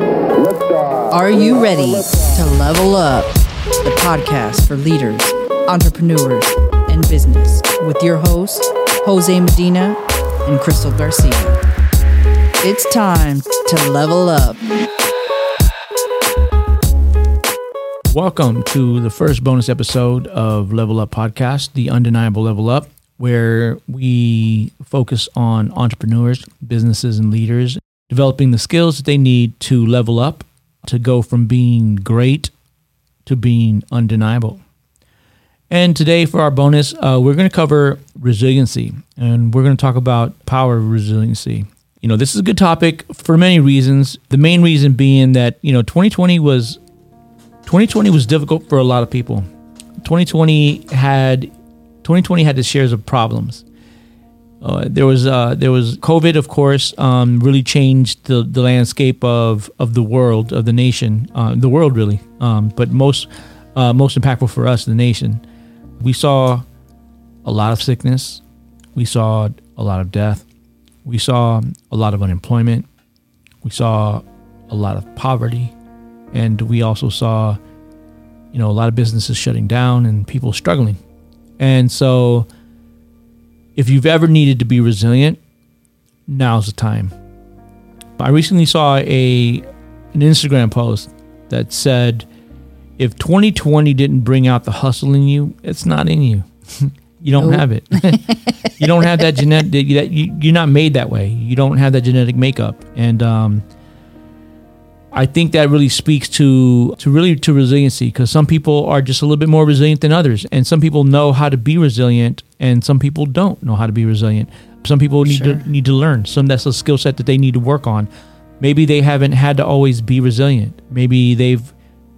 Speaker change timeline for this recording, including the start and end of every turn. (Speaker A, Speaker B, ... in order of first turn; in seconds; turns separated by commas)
Speaker A: 0.3-2.4, Speaker B: 1.1-11.6, Speaker B: 12.6-14.7, Speaker C: 18.1-32.5, Speaker C: 33.2-34.6, Speaker C: 35.7-46.8, Speaker C: 47.6-49.5, Speaker C: 50.0-51.5, Speaker C: 52.0-53.6, Speaker C: 54.6-65.4, Speaker C: 66.0-66.6, Speaker C: 67.4-68.4, Speaker C: 68.9-70.4, Speaker C: 71.0-72.9, Speaker C: 73.6-75.7, Speaker C: 76.3-77.6, Speaker C: 78.5-81.0, Speaker C: 81.6-82.5, Speaker C: 83.8-85.4, Speaker C: 86.3-87.1, Speaker C: 88.2-92.3, Speaker C: 93.0-103.6, Speaker B: 97.4-98.3, Speaker C: 105.1-118.1, Speaker B: 115.2-115.7, Speaker C: 118.6-121.7